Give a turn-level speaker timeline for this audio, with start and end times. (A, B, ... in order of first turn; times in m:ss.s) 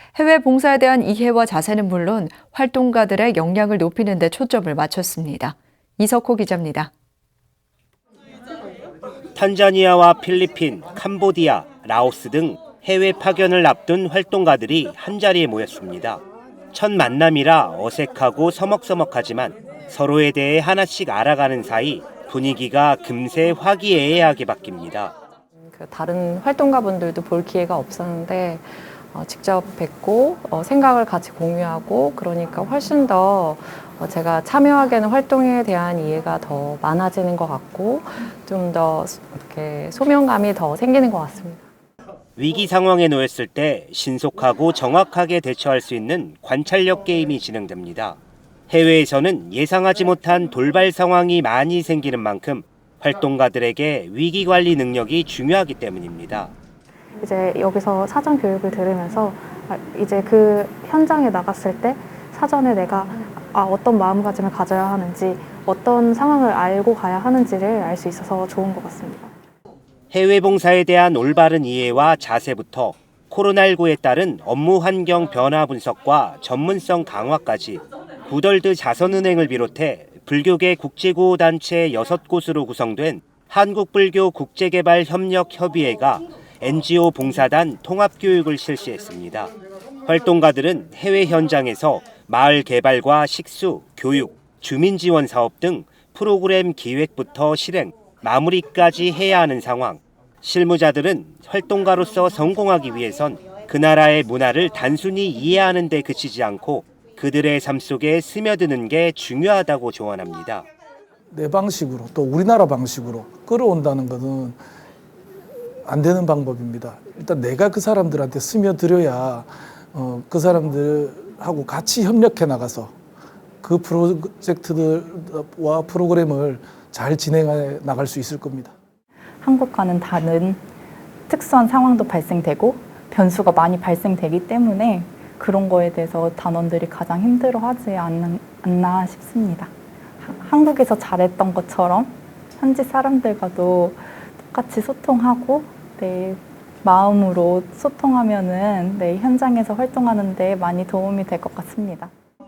0:00.2-0:06.9 A
0:09.4-0:25.2 B
0:25.6-0:41.6 C
0:42.4-0:48.2 B
0:48.7-0:56.5 B
0:57.2-1:09.3 D
1:10.1-1:29.5 B
1:30.1-1:50.7 B
1:51.3-1:54.6 E
1:55.9-2:02.9 E
2:03.6-2:08.7 E
2:09.4-2:10.6 F
2:11.3-2:19.7 F
2:20.2-2:32.1 F